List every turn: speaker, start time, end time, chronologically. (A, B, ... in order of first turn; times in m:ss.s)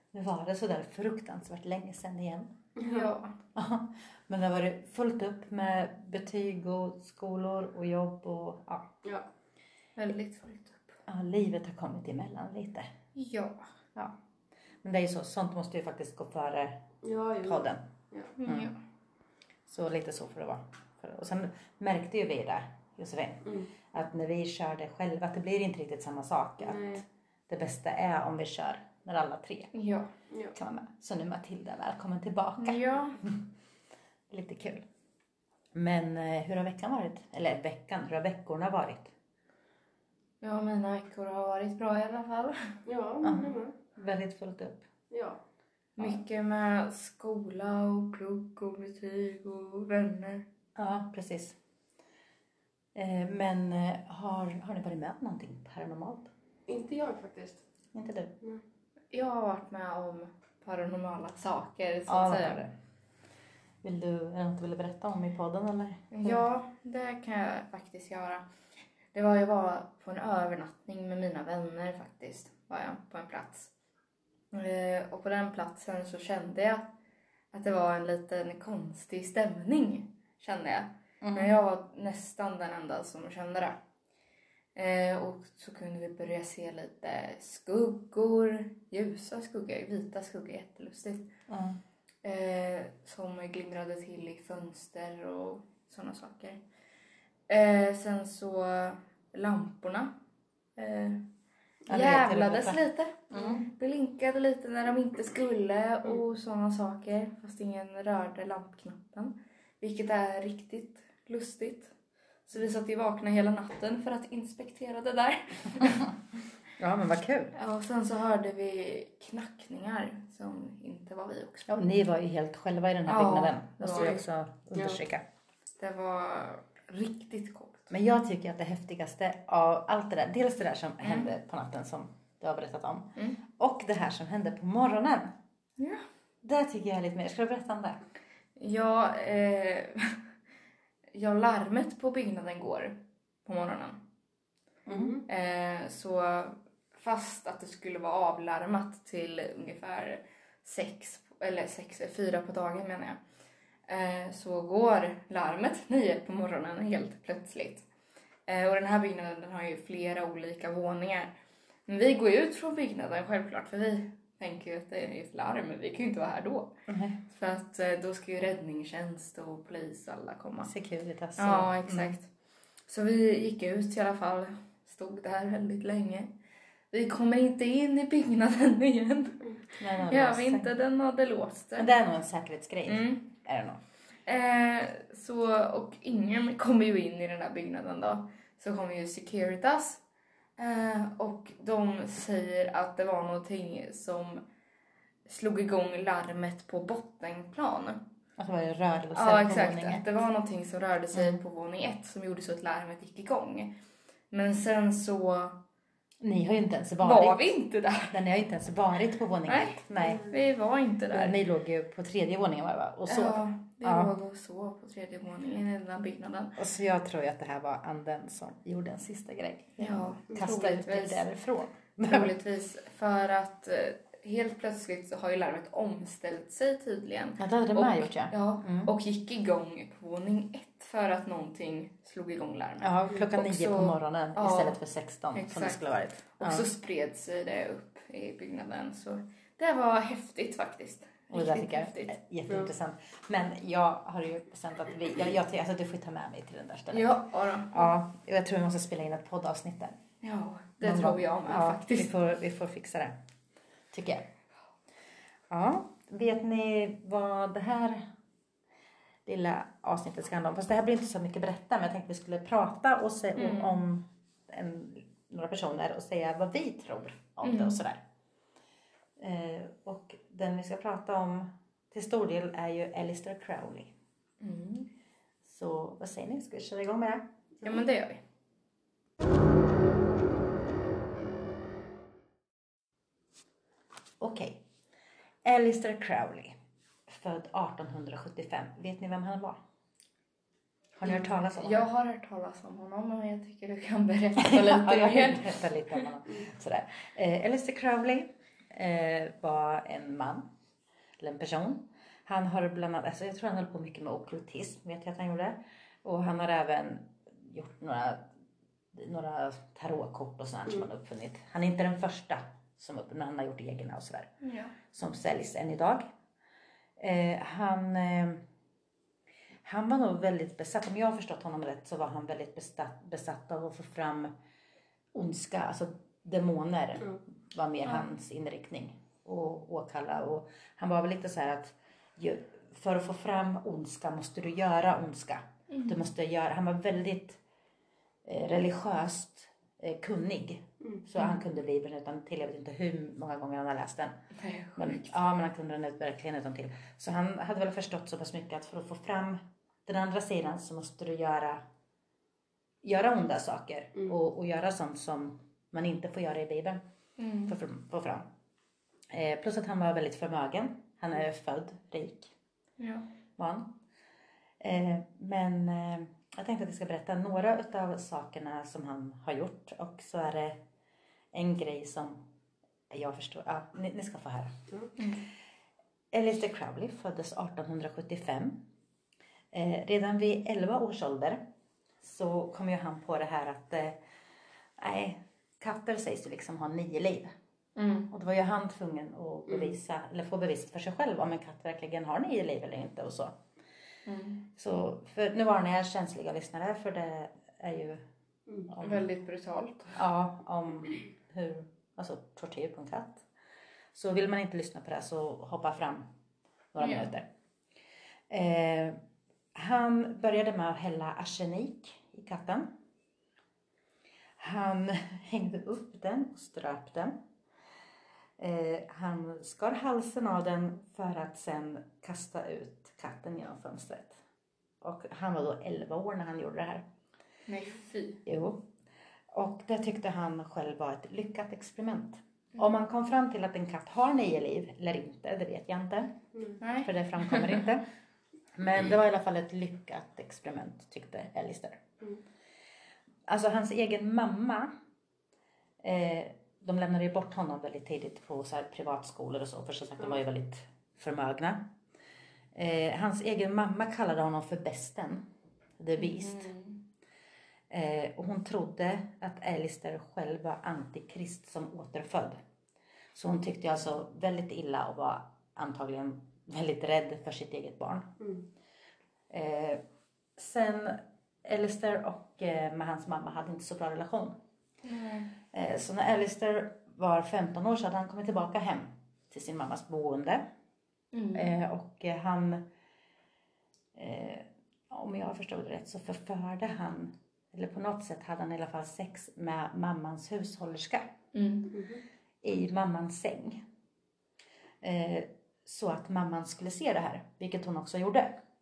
0:00.1-0:02.5 A
0:02.8-0:03.1 B
0:02.8-0:03.3 C
0:03.5-0:08.9 A
0:10.0-0:11.0 C
0:11.1-0:12.9 A
0:13.2-0:13.6 C
0:14.8-0:16.8 A
0:17.0-0:18.3 B
0:17.4-0:17.8 A
0:18.4-0:18.8 C
0:18.4-0:18.7 A
0:19.7-0:29.7 A
0:26.6-0:27.0 B
0:29.7-0:30.1 C
0:30.3-0:30.6 B
0:30.5-0:33.4 A
0:32.6-0:33.2 C
0:34.3-0:34.8 A
0:35.7-0:39.1 A
0:40.4-0:42.7 C
0:42.8-0:43.7 B
0:43.2-0:44.9 A
0:45.1-0:45.4 B
0:46.0-0:50.4 C
0:50.8-0:51.6 A
0:52.9-0:56.3 A
0:56.7-0:57.6 B
0:57.9-0:58.3 A
0:59.1-1:02.6 C
1:02.1-1:02.7 A
1:03.8-1:06.4 A
1:06.1-1:08.4 C
1:09.1-1:13.7 C
1:14.5-1:16.9 C
1:17.5-1:23.8 C
1:21.2-1:21.6 A
1:24.7-1:31.3 C
1:31.5-1:31.8 A
1:32.2-1:36.6 C
1:37.5-1:40.1 C
1:40.8-1:41.2 C
1:41.9-1:42.8 A
1:41.9-1:51.9 C
1:43.3-1:43.6 A
1:52.5-1:56.1 C
1:56.8-1:57.5 A
1:57.5-2:01.7 C
2:01.7-2:05.2 A
2:03.0-2:04.2 C
2:03.9-2:04.2 B
2:04.7-2:05.0 B
2:05.8-2:07.9 C
2:07.9-2:15.3 A
2:11.0-2:11.3 C
2:15.8-2:16.0 C
2:16.4-2:18.0 A
2:18.6-2:20.2 C
2:21.1-2:24.0 C
2:24.9-2:25.2 A
2:24.9-2:25.2 B
2:25.3-2:33.2 C
2:33.9-2:37.8 C
2:38.5-2:41.3 C
2:41.9-2:50.7 C
2:46.9-2:47.2 A
2:50.6-2:52.1 A
2:51.4-2:52.3 C
2:52.9-2:56.3 C
2:56.9-3:01.9 C
2:59.8-3:00.7 A
3:01.8-3:03.8 A
3:02.8-3:03.3 C
3:04.2-3:10.0 C
3:10.6-3:14.4 C
3:15.2-3:18.0 C
3:18.4-3:20.0 A
3:19.1-3:23.8 C
3:21.1-3:21.4 A
3:24.3-3:25.6 C
3:26.2-3:27.5 A
3:27.0-3:28.2 C
3:28.1-3:30.3 A
3:29.5-3:31.4 C
3:31.1-3:34.1 A
3:33.1-3:36.6 C
3:36.6-3:42.3 A
3:39.8-3:41.2 C
3:42.0-3:54.8 C
3:47.4-3:48.9 A
3:52.8-3:56.7 A
3:55.3-3:55.8 C
3:56.4-4:02.2 C
4:01.3-4:07.2 A
4:06.9-4:07.9 C
4:07.7-4:10.0 A
4:10.2-4:12.1 C
4:10.8-4:13.2 A
4:13.9-4:14.2 A
4:15.5-4:18.0 A
4:19.2-4:28.0 A
4:23.4-4:23.8 C
4:27.4-4:27.8 C
4:29.2-4:33.9 A
4:34.4-4:34.9 C
4:35.4-4:37.3 A
4:37.6-4:38.2 C
4:44.2-4:44.6 A
4:45.4-4:46.5 A
4:47.1-4:49.6 A
4:51.0-4:51.8 A
4:51.0-4:56.0 C
4:54.4-5:00.4 A
5:01.2-5:08.2 A
5:08.9-5:14.3 A
5:14.4-5:14.7 C
5:14.9-5:16.0 A
5:17.0-5:18.4 A
5:19.6-5:24.3 A
5:25.1-5:37.4 A
5:35.7-5:36.0 C
5:38.2-5:44.1 A
5:44.4-5:45.1 C
5:44.8-5:51.6 A
5:52.8-5:56.8 A
5:57.2-5:57.6 C
5:57.5-5:58.2 A
5:59.1-6:02.3 A
6:02.8-6:03.0 C
6:03.4-6:03.7 A
6:04.6-6:10.6 A
6:11.3-6:12.2 A
6:12.9-6:14.5 A
6:16.1-6:18.6 A
6:19.5-6:21.4 A
6:22.0-6:24.0 A
6:24.8-6:27.3 A
6:27.8-6:28.1 C
6:28.1-6:33.3 A
6:34.0-6:34.4 C
6:34.6-6:38.0 A
6:38.7-6:39.0 A
6:38.8-6:40.0 C
6:40.0-6:43.2 A
6:43.9-6:46.0 A
6:46.7-6:47.2 A
6:46.8-6:47.1 C
6:48.3-6:49.0 A
6:49.5-6:52.7 A
6:54.4-6:57.2 A
6:58.4-7:04.2 A
7:04.8-7:06.8 A
7:07.5-7:08.2 C
7:08.2-7:08.6 A
7:09.3-7:16.1 A
7:16.6-7:17.6 C
7:16.8-7:17.8 A
7:18.6-7:21.8 A
7:23.3-7:24.7 A
7:25.8-7:31.6 A
7:32.5-7:35.2 A
7:35.8-7:36.5 A
7:36.0-7:36.8 C
7:37.7-7:42.4 A
7:43.1-7:48.1 A
7:49.3-7:49.8 A
7:50.4-7:54.3 A
7:54.8-7:55.3 C
7:55.5-8:00.4 A
8:01.1-8:01.5 C
8:01.3-8:02.6 A
8:03.9-8:11.1 A
8:11.3-8:11.7 C
8:11.7-8:12.0 B
8:12.4-8:13.6 A
8:14.8-8:18.4 A